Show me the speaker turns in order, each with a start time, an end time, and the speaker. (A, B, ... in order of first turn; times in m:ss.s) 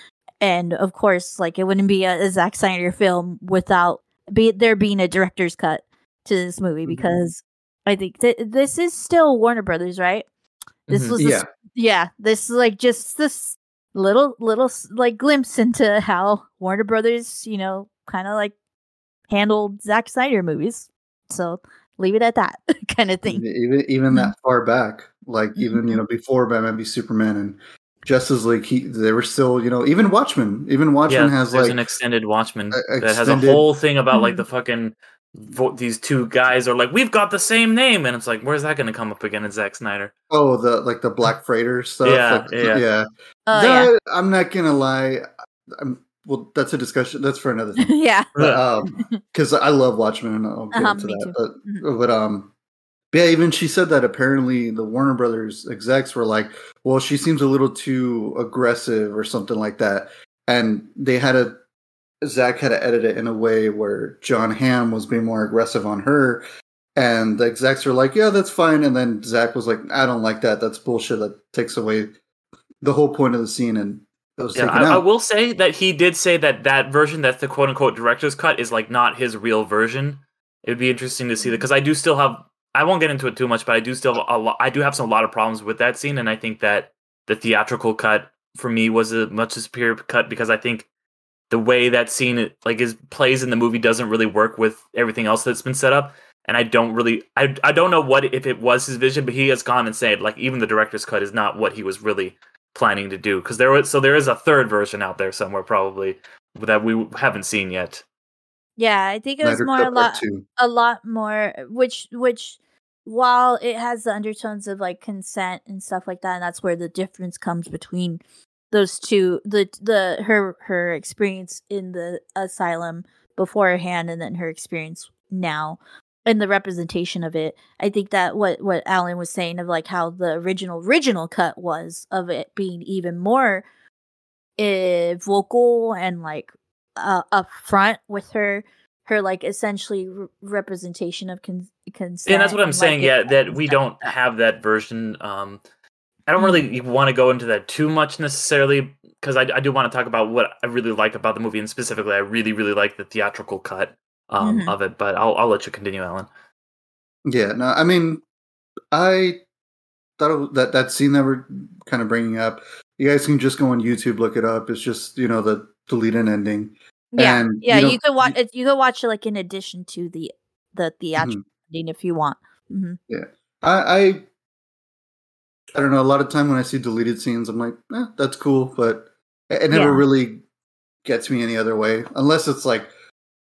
0:00.4-0:10.3 A
0:06.8-0:07.2 B
0:10.9-0:11.1 C
0:10.9-0:18.5 A
0:11.2-0:11.5 B
0:19.3-0:23.4 A
0:23.3-0:31.8 B
0:25.6-0:26.0 A
0:31.1-0:40.1 C
0:32.7-0:33.6 B
0:34.1-0:34.4 A
0:40.3-0:52.5 B
0:42.0-0:42.8 C
0:43.5-0:43.9 A
0:47.8-0:48.3 A
0:48.4-0:48.6 C
0:48.8-0:49.2 A
0:50.7-0:51.8 A
0:53.1-1:01.6 B
1:02.2-1:06.4 B
1:07.0-1:12.1 B
1:12.8-1:15.0 B
1:14.5-1:30.9 C
1:21.4-1:21.6 A
1:31.5-1:48.0 C
1:48.8-1:58.2 A
1:49.4-1:50.4 B
1:58.7-2:13.6 A
2:14.6-2:24.1 A
2:22.3-2:25.6 C
2:26.3-2:36.3 C
2:26.4-2:26.6 A
2:34.4-2:34.7 A
2:37.2-2:38.2 B
2:38.9-2:39.4 B
2:40.2-2:48.3 B
2:47.1-2:53.0 A
2:53.1-2:54.2 B
2:55.7-3:00.4 B
2:59.7-3:00.0 A
3:01.0-3:02.9 B